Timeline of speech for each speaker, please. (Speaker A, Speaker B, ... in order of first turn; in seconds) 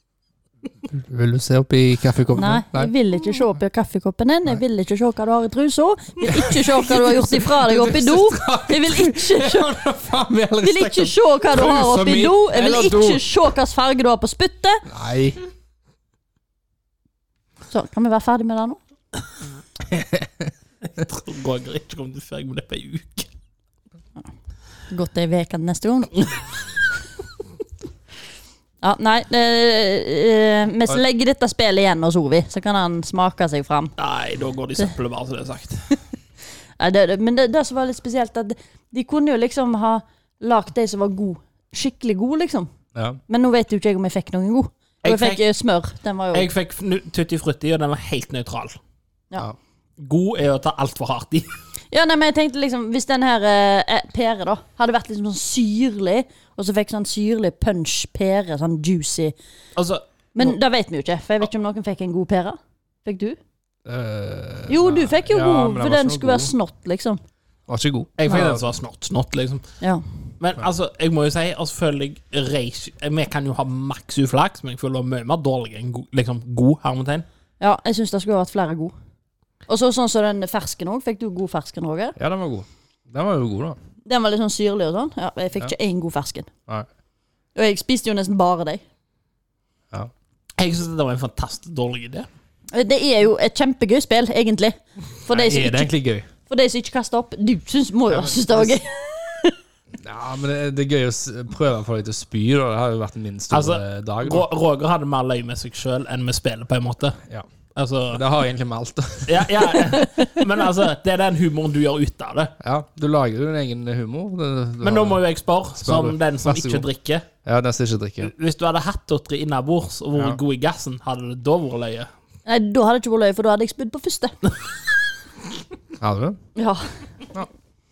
Speaker A: 0.9-2.9, 6.3-13.2, 14.9-15.4, 19.9-20.5, 43.0-43.2, 63.9-66.5, 67.7-68.6, 82.2-83.8, 95.3-96.3, 98.1-98.7, 100.0-104.5, 108.1-109.9, 112.6-115.2, 115.8-116.9, 117.4-118.3, 126.0-126.4
Speaker B: 2.4-9.8, 10.6-14.8, 17.7-18.8, 24.9-26.3, 28.8-34.0, 36.8-42.7, 43.3-46.5, 51.9-59.4, 60.4-63.4, 64.7-67.2, 77.6-78.9, 79.7-82.2, 84.1-86.5, 87.5-88.8, 92.7-95.9, 96.5-99.5, 110.0-110.3, 122.5-124.4, 126.6-127.0
Speaker C: 20.9-23.3, 34.0-35.9, 45.0-45.4, 46.3-48.8, 50.0-51.5, 59.8-60.5, 68.2-69.7, 70.4-77.3, 90.6-92.3, 103.5-107.2, 107.8-108.2, 109.3-112.5, 114.8-117.3, 118.2-122.1